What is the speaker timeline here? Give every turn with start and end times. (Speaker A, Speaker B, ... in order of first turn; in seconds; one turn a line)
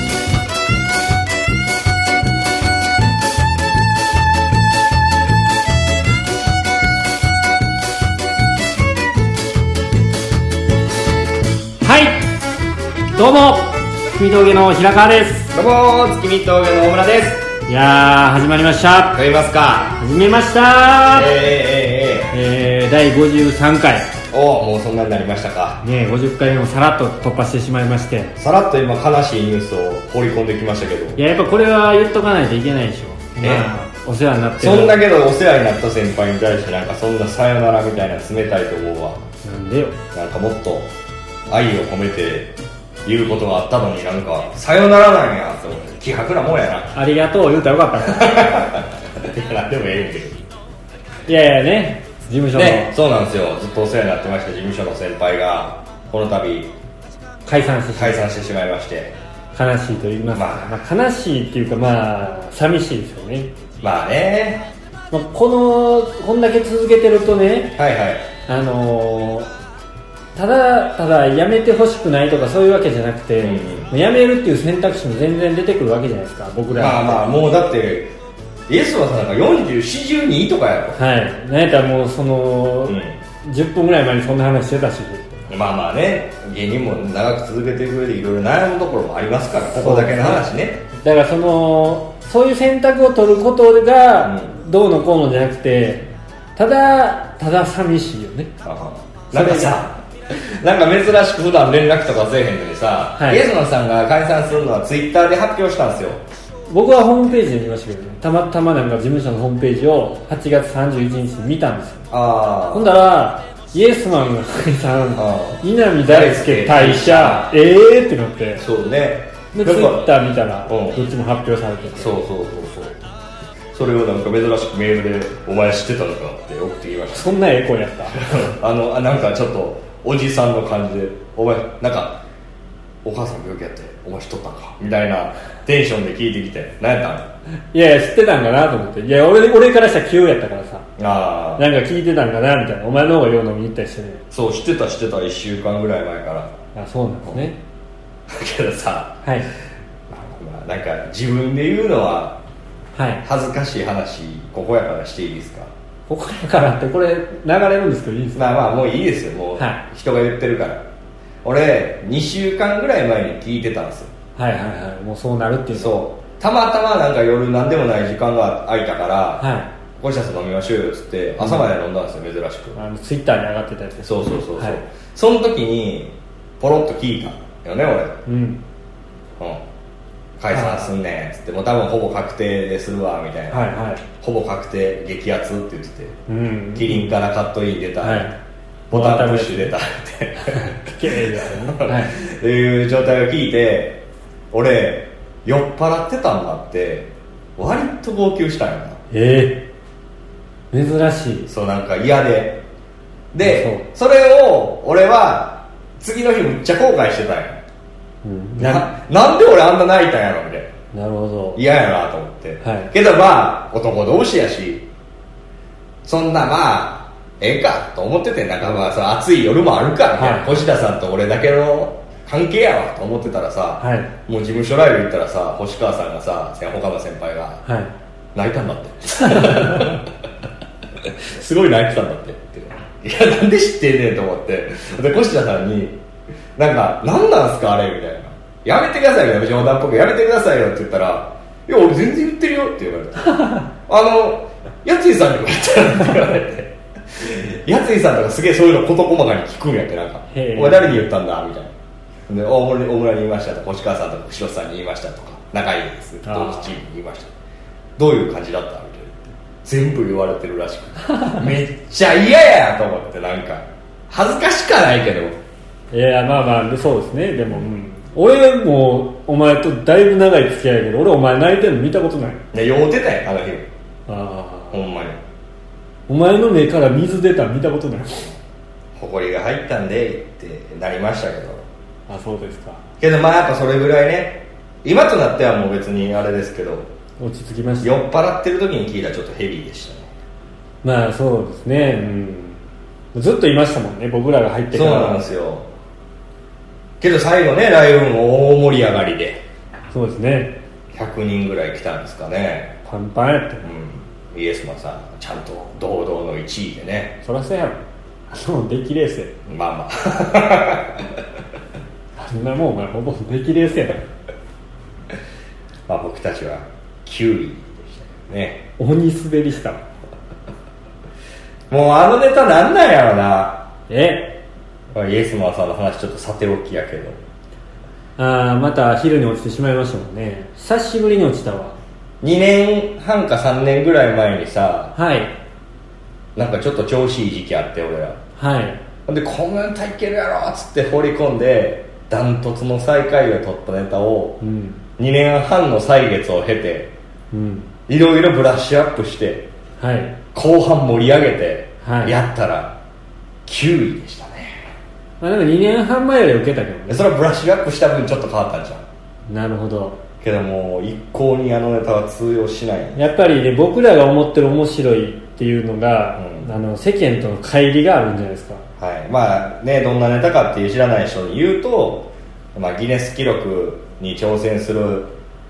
Speaker A: 11.8-12.3
Speaker A: 13.1-15.5
Speaker B: 15.5-17.5
Speaker A: 17.7-19.2
Speaker B: 19.1-20.0
Speaker A: 20.0-21.3
Speaker B: 21.1-22.3
Speaker A: 22.3-24.1
Speaker B: 24.3-25.8
Speaker A: 25.8-28.4
Speaker B: 28.4-31.2
Speaker A: 31.2-35.0
Speaker B: 33.4-33.7
Speaker B: 34.6-39.2
Speaker A: 39.4-40.0
Speaker B: 40.1-40.9
Speaker B: 41.5-42.5
Speaker B: 43.0-47.0
Speaker A: 47.0-48.6
Speaker B: 48.0-50.4
Speaker A: 51.3-52.9
Speaker B: 52.5-56.7
Speaker A: 57.5-58.3
Speaker B: 58.0-59.1
Speaker A: 59.5-63.5
Speaker B: 60.3-60.7
Speaker B: 63.8-64.6
Speaker A: 65.1-67.8
Speaker B: 67.8-68.3
Speaker A: 68.5-69.5
Speaker A: 70.4-77.4
Speaker B: 73.4-73.9
Speaker B: 76.8-78.1
Speaker B: 78.7-81.0
Speaker A: 81.0-85.4
Speaker B: 82.9-83.2
Speaker B: 85.5-90.8
Speaker A: 89.8-90.4
Speaker A: 91.0-96.0
Speaker B: 94.2-94.5
Speaker A: 96.6-98.5
Speaker B: 98.6-106.2
Speaker A: 99.3-99.8
Speaker A: 103.2-103.4
Speaker A: 106.7-112.1
Speaker B: 112.1-112.9
Speaker A: 112.7-118.6
Speaker B: 115.2-117.6
Speaker B: 118.6-120.1
Speaker A: 119.5-122.1
Speaker B: 120.7-121.0
Speaker B: 122.0-123.0
Speaker B: 123.7-127.3
Speaker A: 127.1-128.3
Speaker B: 128.1-132.2
Speaker B: 133.0-137.3
Speaker A: 137.7-140.9
Speaker B: 141.0-141.6
Speaker A: 141.6-144.2
Speaker B: 144.3-146.5
Speaker A: 146.8-147.6
Speaker B: 148.3-149.2
Speaker A: 149.2-149.5
Speaker B: 150.1-152.4
Speaker A: 152.9-153.2
Speaker B: 153.2-155.7
Speaker A: 156.1-158.4
Speaker B: 158.3-160.8
Speaker B: 161.4-164.1
Speaker A: 164.4-166.0
Speaker B: 165.7-169.5
Speaker A: 169.4-169.7
Speaker B: 170.0-172.8
Speaker A: 171.4-171.7
Speaker A: 172.8-174.8
Speaker B: 174.0-178.2
Speaker A: 178.3-178.6
Speaker B: 180.4-183.7
Speaker A: 180.5-180.9
Speaker A: 183.5-184.0
Speaker B: 184.2-186.2
Speaker A: 186.3-187.2
Speaker B: 186.8-188.3
Speaker A: 188.0-188.3
Speaker B: 188.9-194.0
Speaker A: 188.9-189.7
Speaker A: 190.5-192.2
Speaker B: 194.5-199.0
Speaker A: 199.1-199.6
Speaker A: 200.7-201.5
Speaker B: 201.5-202.6
Speaker B: 203.3-207.6
Speaker A: 203.4-203.9
Speaker A: 208.2-208.9
Speaker B: 208.6-210.7
Speaker A: 210.9-211.6
Speaker B: 211.6-214.9
Speaker A: 212.6-212.9
Speaker B: 216.0-227.6
Speaker A: 220.2-220.6
Speaker A: 223.8-224.1
Speaker A: 227.6-227.9
Speaker B: 228.3-230.1
Speaker A: 229.2-230.0
Speaker B: 231.0-236.0
Speaker B: 236.6-251.7
Speaker A: 250.3-251.1
Speaker B: 252.3-257.3
Speaker A: 256.2-256.7
Speaker B: 258.0-265.4
Speaker A: 261.1-261.4
Speaker A: 265.9-272.4
Speaker B: 272.5-273.7
Speaker A: 274.1-274.8
Speaker B: 274.7-275.2
Speaker A: 276.1-278.4
Speaker B: 279.0-281.6
Speaker A: 282.1-282.8
Speaker B: 283.0-286.9
Speaker A: 287.2-287.9
Speaker B: 287.8-290.1
Speaker A: 290.8-292.6
Speaker A: 293.1-295.3
Speaker B: 294.7-295.7
Speaker B: 297.0-299.4
Speaker A: 299.9-300.6
Speaker B: 300.9-302.7
Speaker A: 302.9-303.7
Speaker B: 303.6-307.2
Speaker A: 307.2-309.3
Speaker B: 309.5-311.2
Speaker A: 312.2-314.0
Speaker B: 315.9-318.6
Speaker A: 318.8-319.8
Speaker B: 321.7-323.7
Speaker A: 323.9-324.4
Speaker B: 324.9-327.2
Speaker A: 328.2-331.8
Speaker B: 332.2-334.9
Speaker A: 334.9-335.4
Speaker B: 336.4-338.2
Speaker A: 338.4-338.8
Speaker B: 339.1-344.4
Speaker A: 344.4-344.8
Speaker B: 345.0-346.9
Speaker A: 347.3-347.7
Speaker B: 347.9-349.5
Speaker A: 349.8-350.2
Speaker B: 350.3-352.8
Speaker A: 351.8-352.2
Speaker B: 353.5-354.6
Speaker A: 355.2-357.1
Speaker B: 356.9-358.8
Speaker A: 359.3-360.0
Speaker B: 360.2-363.0
Speaker A: 362.9-368.6
Speaker B: 366.2-366.5
Speaker B: 368.8-375.1